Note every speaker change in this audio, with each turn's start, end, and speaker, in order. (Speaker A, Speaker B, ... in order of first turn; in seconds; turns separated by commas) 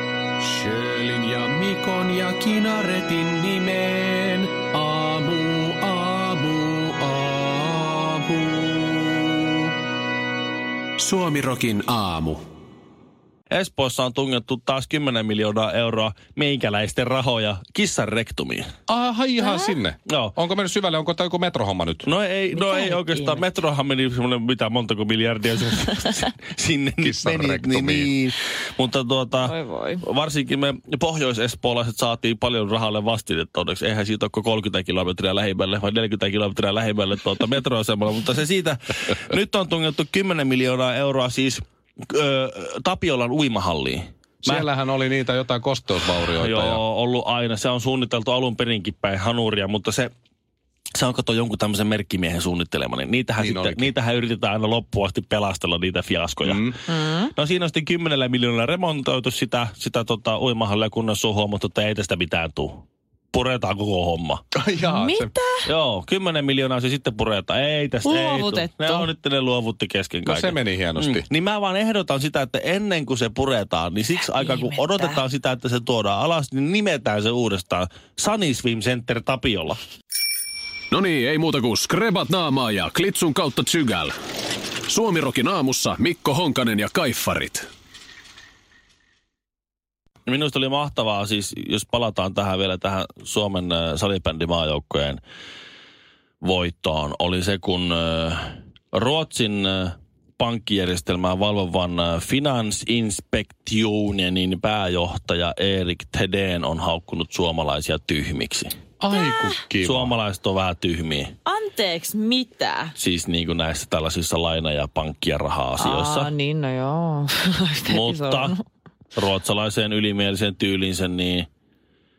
Speaker A: 0.4-9.5, Speaker A: 11.0-12.4, Speaker B: 13.5-18.7, Speaker C: 18.9-22.1, Speaker D: 19.4-19.8, Speaker B: 20.1-20.4, Speaker B: 22.1-44.7, Speaker D: 22.5-23.4, Speaker C: 27.0-28.1, Speaker D: 29.4-30.0, Speaker C: 44.4-46.8, Speaker B: 46.0-50.1, Speaker B: 51.0-64.4, Speaker C: 53.4-53.9, Speaker C: 56.4-56.8, Speaker D: 56.9-57.3, Speaker C: 64.5-65.3, Speaker D: 64.8-65.7, Speaker B: 65.7-79.8, Speaker D: 68.0-69.1, Speaker C: 70.2-71.2, Speaker D: 74.3-75.2, Speaker A: 80.9-84.1, Speaker A: 84.9-87.7, Speaker B: 90.3-95.2, Speaker B: 96.4-108.8, Speaker C: 109.0-110.1, Speaker D: 109.1-109.6, Speaker B: 109.8-111.3, Speaker D: 111.5-112.9, Speaker B: 113.0-116.3, Speaker D: 115.8-118.6, Speaker B: 117.9-118.6, Speaker B: 119.1-121.5